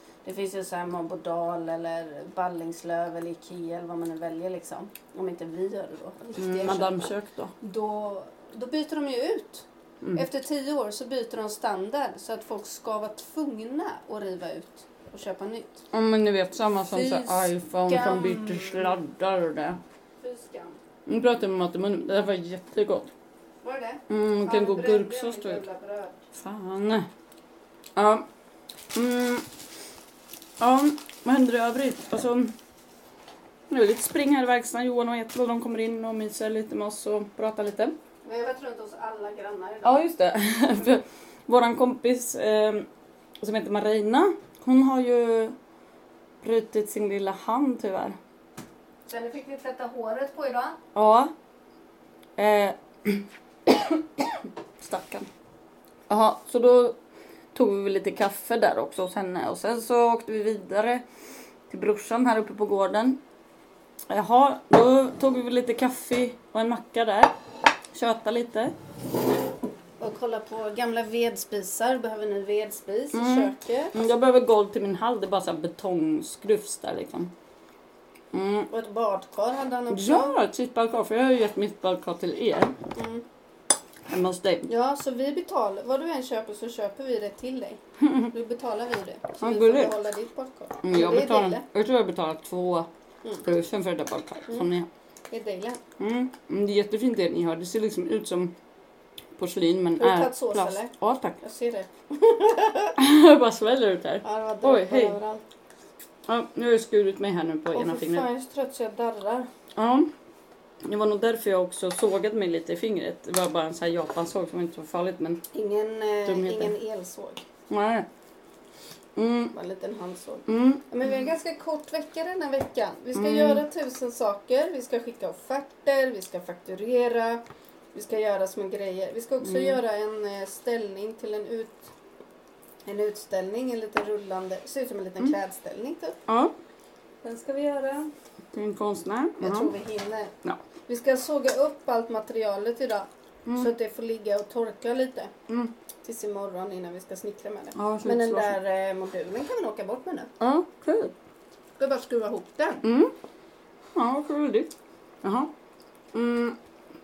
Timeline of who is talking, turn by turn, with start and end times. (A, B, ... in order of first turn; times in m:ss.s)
0:00.2-0:07.1 A
0:06.4-0:07.5 B
0:07.6-0:15.8 A
0:15.9-0:19.8 B
0:16.8-0:19.0 A
0:20.2-0:20.8 A
0:21.1-0:23.1 B
0:23.6-0:26.2 A
0:24.1-0:25.6 B
0:26.3-0:27.1 B
0:28.0-0:28.2 B
0:28.9-0:29.4 B
0:30.6-0:32.6 B
0:33.7-0:37.9 B
0:38.2-0:40.1 A
0:39.8-0:42.9 B
0:43.4-0:45.6 B
0:46.4-0:48.2 B
0:49.1-0:50.8 A
0:50.9-0:51.3 B
0:52.4-0:55.3 B
0:56.1-0:57.0 B
0:57.6-1:01.0 B
1:01.7-1:03.2 B
1:04.1-1:07.3 B
1:07.9-1:08.8 B
1:10.0-1:13.9 A
1:13.1-1:17.3 B
1:18.3-1:18.7 B
1:18.7-1:20.4 A
1:19.9-1:22.8 B
1:22.9-1:23.2 A
1:24.1-1:24.7 B
1:24.7-1:27.8 A
1:28.0-1:28.3 B
1:28.3-1:31.7 A
1:29.4-1:30.0 B
1:30.8-1:32.9 B
1:33.4-1:34.9 B
1:35.3-1:35.8 A
1:36.0-1:38.5 B
1:39.4-1:41.4 B
1:40.0-1:42.9 A
1:43.0-1:45.2 B
1:44.2-1:45.4 A
1:46.3-1:48.2 B
1:47.7-1:49.5 A
1:49.8-1:50.1 B
1:50.8-1:55.4 B
1:55.5-1:57.4 A
1:56.2-1:56.8 B
1:57.7-1:58.1 B
1:59.2-1:59.6 B
1:59.5-2:07.4 A
2:00.5-2:00.9 B
2:03.1-2:03.6 B
2:07.9-2:11.9 A
2:09.4-2:09.8 B
2:12.9-2:16.2 A
2:16.3-2:16.5 B
2:17.2-2:18.1 A
2:18.5-2:19.7 B
2:19.4-2:20.3 A
2:20.9-2:25.3 A
2:26.0-2:30.3 A
2:27.8-2:28.6 B
2:30.4-2:31.1 B
2:31.8-2:32.8 A
2:32.8-2:33.1 B
2:33.9-2:34.7 B
2:35.2-2:35.5 B
2:36.1-2:36.6 B